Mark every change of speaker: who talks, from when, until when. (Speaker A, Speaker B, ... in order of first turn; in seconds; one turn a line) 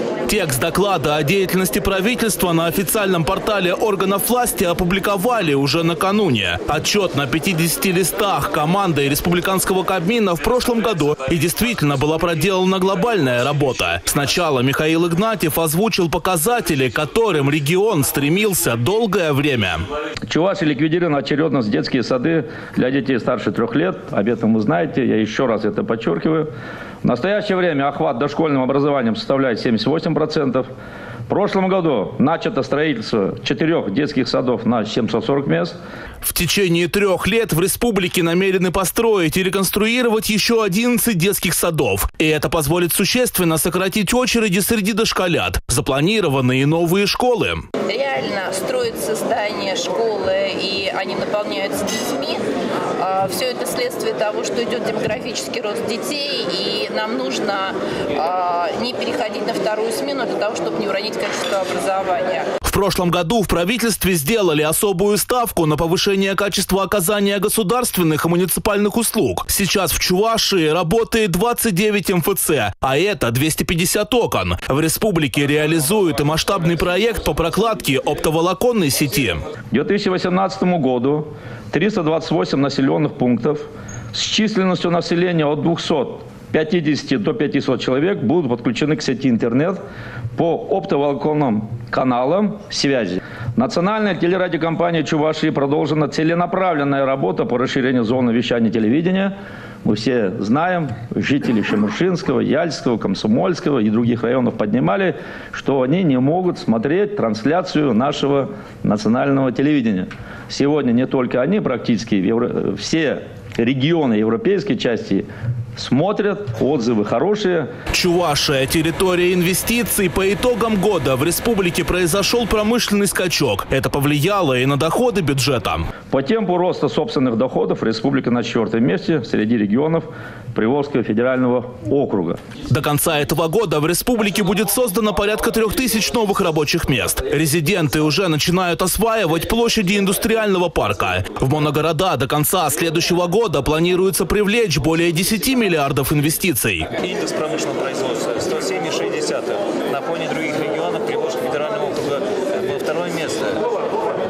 Speaker A: 0.3-19.9
Speaker B: 20.3-26.5
Speaker B: 27.0-30.7
Speaker B: 31.3-35.8
Speaker A: 36.2-47.6
Speaker C: 47.9-52.5
Speaker C: 53.0-62.5
Speaker A: 62.6-79.4
Speaker B: 79.7-89.8
Speaker B: 90.4-117.7
Speaker A: 117.9-125.9
Speaker B: 126.1-132.4
Speaker A: 132.7-146.9
Speaker D: 147.0-153.6